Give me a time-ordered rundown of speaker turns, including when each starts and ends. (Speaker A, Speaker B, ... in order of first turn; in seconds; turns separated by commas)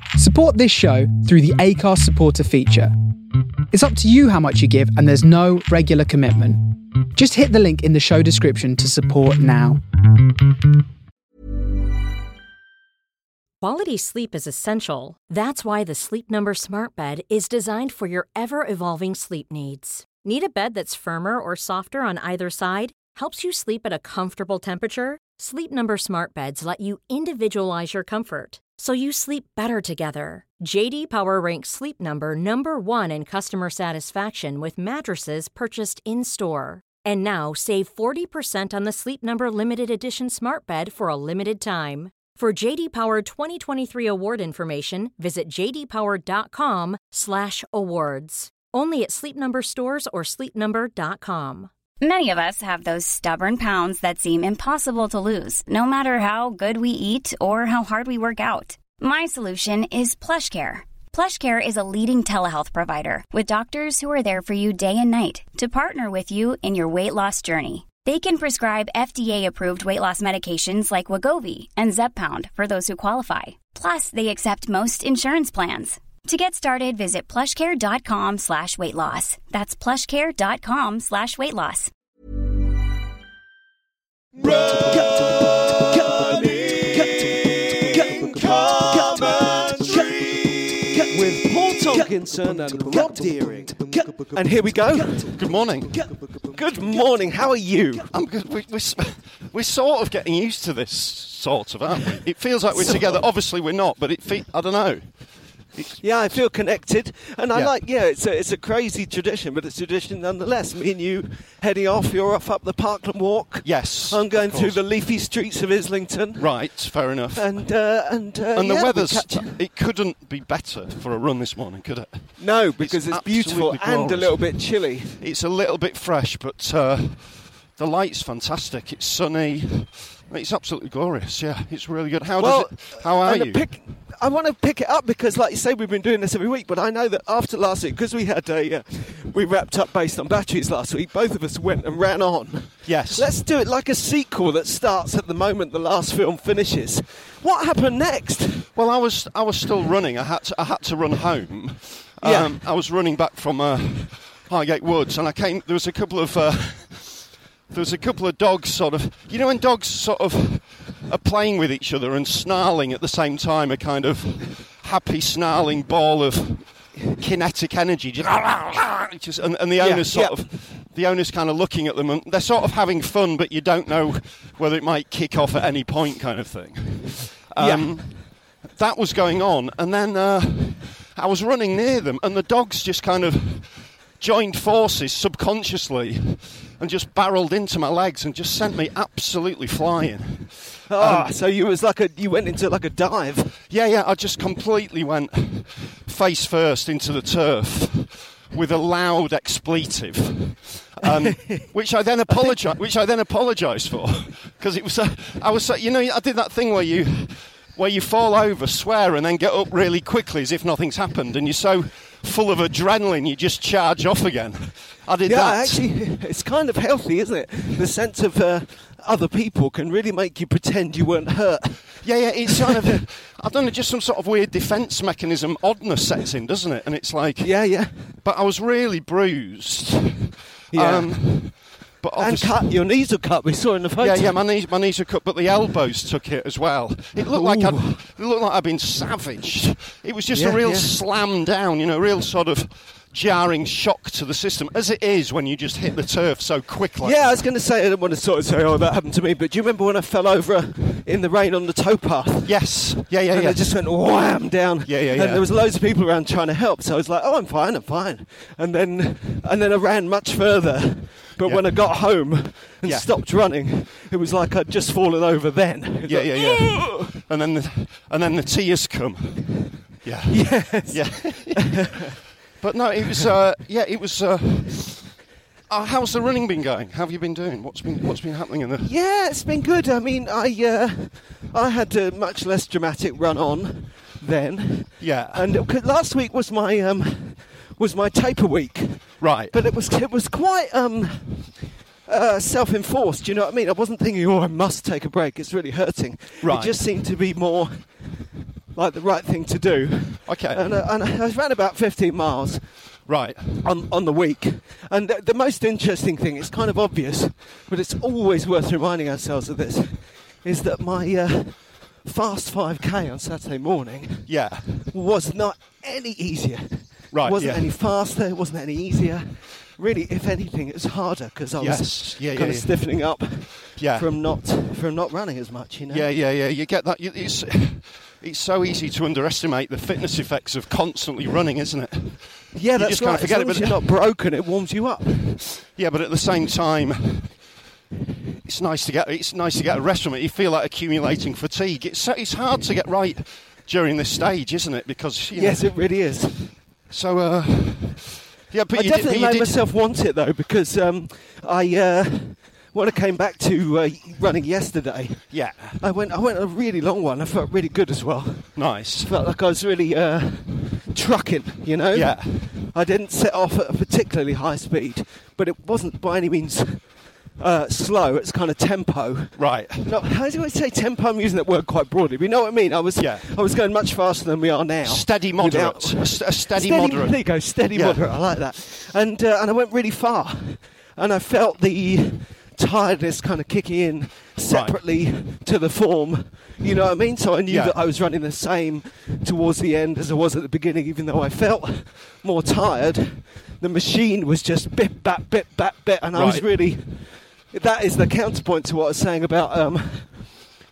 Speaker A: 0.1-2.9, Speaker A: 3.7-9.8, Speaker B: 13.6-51.7, Speaker C: 52.0-81.9, Speaker D: 84.4-95.4, Speaker E: 95.2-96.1, Speaker D: 96.4-98.1, Speaker E: 98.1-105.2, Speaker D: 102.7-103.2, Speaker E: 105.7-106.4, Speaker D: 106.0-119.6, Speaker E: 113.6-114.8, Speaker E: 116.4-117.8, Speaker E: 118.5-133.6, Speaker D: 122.4-125.2, Speaker D: 132.4-148.7, Speaker E: 142.8-143.3, Speaker E: 148.7-191.3, Speaker D: 152.2-152.6, Speaker D: 169.8-170.5, Speaker D: 177.6-178.0, Speaker D: 190.9-193.6, Speaker E: 193.7-215.8, Speaker D: 201.1-201.7, Speaker D: 202.3-202.5, Speaker D: 215.2-223.0, Speaker E: 222.0-232.7, Speaker D: 227.4-228.1, Speaker D: 230.7-231.6, Speaker D: 232.2-234.4, Speaker E: 234.0-247.4, Speaker D: 237.2-238.0, Speaker D: 240.3-240.9, Speaker D: 247.0-252.8, Speaker E: 252.4-253.7, Speaker D: 253.3-267.1, Speaker E: 254.8-255.5, Speaker E: 261.4-261.9, Speaker E: 262.8-263.1, Speaker E: 266.1-272.1, Speaker D: 270.3-271.8, Speaker E: 272.6-278.9, Speaker D: 278.8-297.9, Speaker E: 285.0-285.5, Speaker E: 289.2-289.6, Speaker E: 296.4-296.8, Speaker D: 298.7-302.6, Speaker E: 300.2-300.8, Speaker E: 303.1-303.6, Speaker D: 303.6-314.3, Speaker E: 314.3-314.7, Speaker D: 314.9-326.1, Speaker E: 317.1-317.7, Speaker E: 321.6-322.9, Speaker E: 323.8-324.1, Speaker E: 325.9-333.8, Speaker D: 332.5-335.4, Speaker E: 335.5-337.3, Speaker E: 338.4-345.7, Speaker D: 345.3-346.5, Speaker E: 346.9-349.6, Speaker D: 348.7-400.5, Speaker E: 355.3-355.8, Speaker E: 358.6-359.1, Speaker E: 361.9-362.5, Speaker E: 369.4-369.9, Speaker E: 373.0-373.2, Speaker E: 374.8-378.0, Speaker E: 384.5-384.8, Speaker E: 387.5-387.8, Speaker E: 396.1-396.5